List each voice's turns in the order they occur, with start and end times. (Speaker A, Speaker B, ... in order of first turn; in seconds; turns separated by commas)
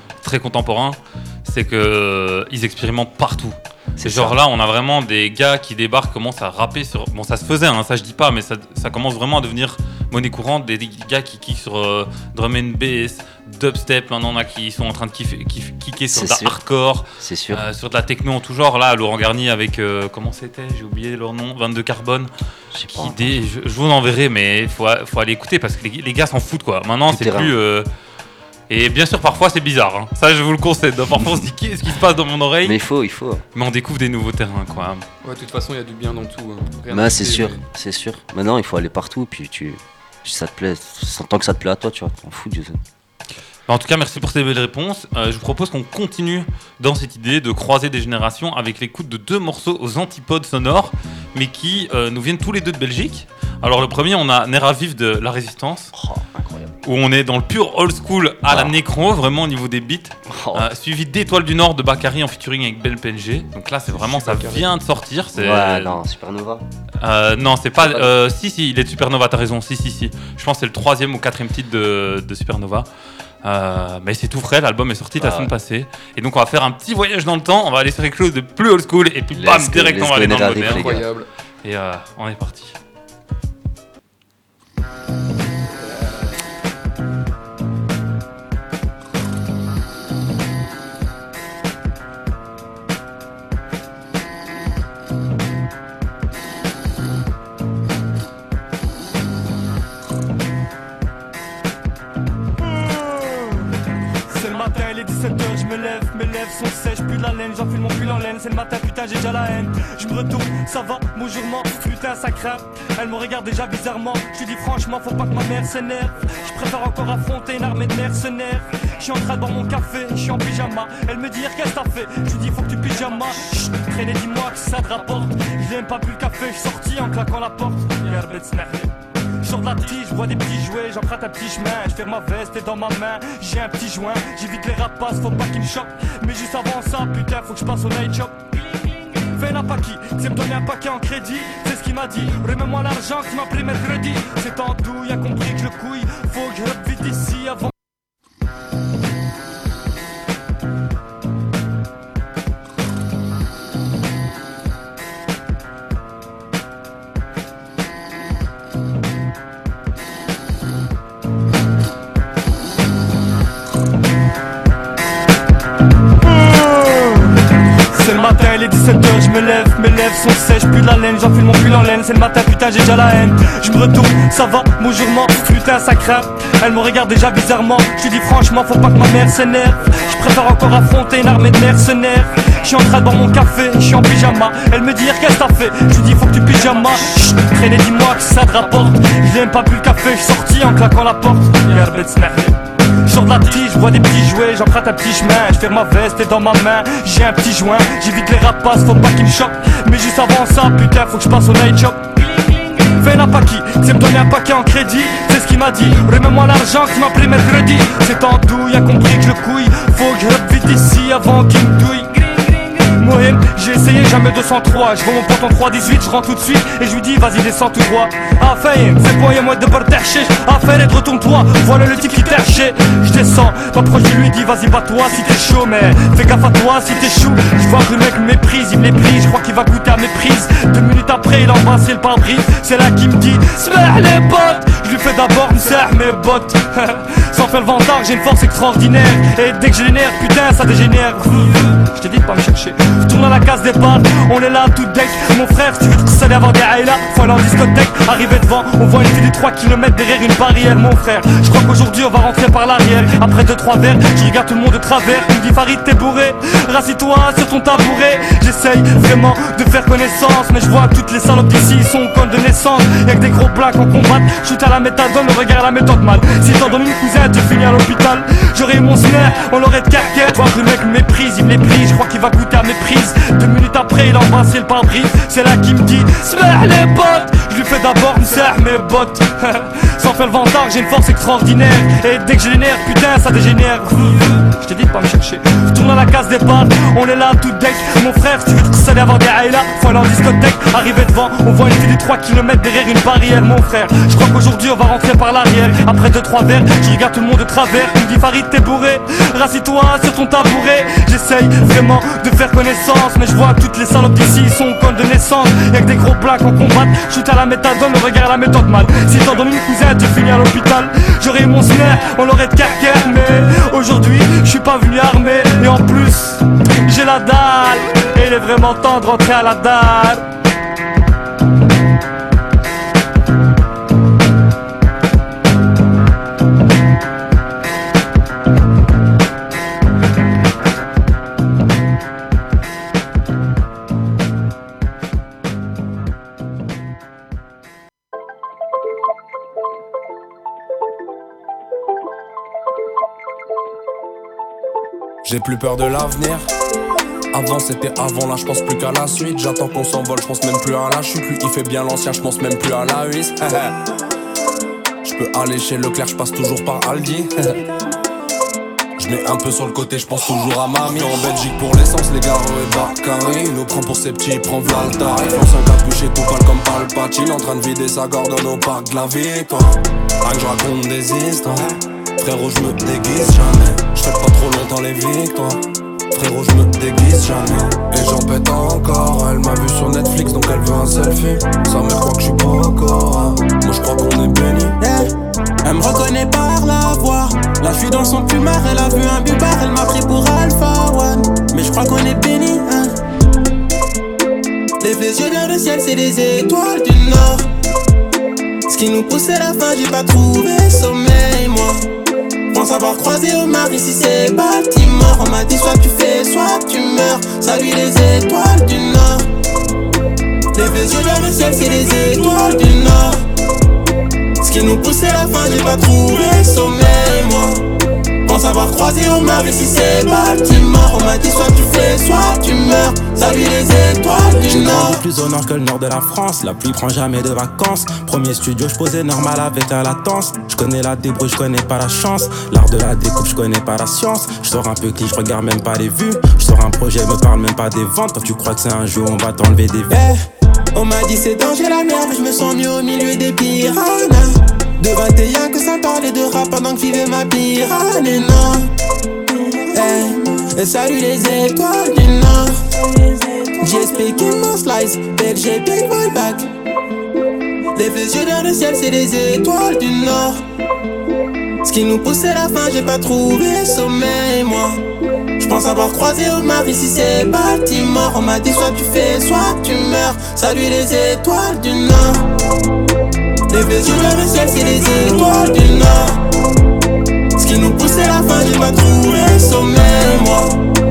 Speaker A: 0.2-22.3, Speaker B: 4.0-4.4, Speaker B: 16.1-16.6, Speaker B: 17.2-17.6, Speaker B: 22.7-23.4, Speaker A: 22.9-27.9, Speaker B: 27.1-27.5, Speaker A: 28.7-32.8, Speaker B: 32.6-33.4, Speaker A: 33.5-35.0, Speaker C: 35.2-37.6, Speaker B: 36.9-42.8, Speaker A: 43.7-55.9, Speaker B: 55.9-56.7, Speaker A: 56.8-65.9, Speaker B: 58.5-58.7, Speaker B: 60.3-60.7, Speaker C: 63.9-64.7, Speaker B: 65.3-66.7, Speaker A: 67.0-72.9, Speaker B: 67.8-68.1, Speaker A: 73.4-80.9, Speaker B: 75.2-75.5, Speaker B: 79.3-81.0, Speaker C: 80.6-81.3, Speaker A: 81.6-82.7, Speaker D: 102.7-103.6, Speaker D: 104.3-147.7, Speaker D: 166.3-167.2, Speaker D: 167.9-320.2, Speaker E: 345.2-346.4, Speaker E: 347.3-353.8, Speaker E: 355.0-357.6, Speaker E: 359.0-375.6, Speaker E: 376.1-384.7, Speaker F: 384.8-385.1, Speaker F: 385.6-393.0, Speaker F: 394.8-397.5, Speaker F: 398.7-401.8, Speaker F: 402.5-409.3, Speaker F: 410.5-413.2, Speaker F: 414.4-417.6, Speaker F: 418.2-425.0, Speaker G: 424.5-439.9, Speaker F: 439.9-440.2, Speaker F: 440.7-448.7, Speaker F: 449.3-456.5, Speaker F: 457.7-460.4, Speaker F: 461.6-464.8, Speaker F: 465.4-472.2, Speaker F: 473.5-476.2, Speaker F: 477.4-480.6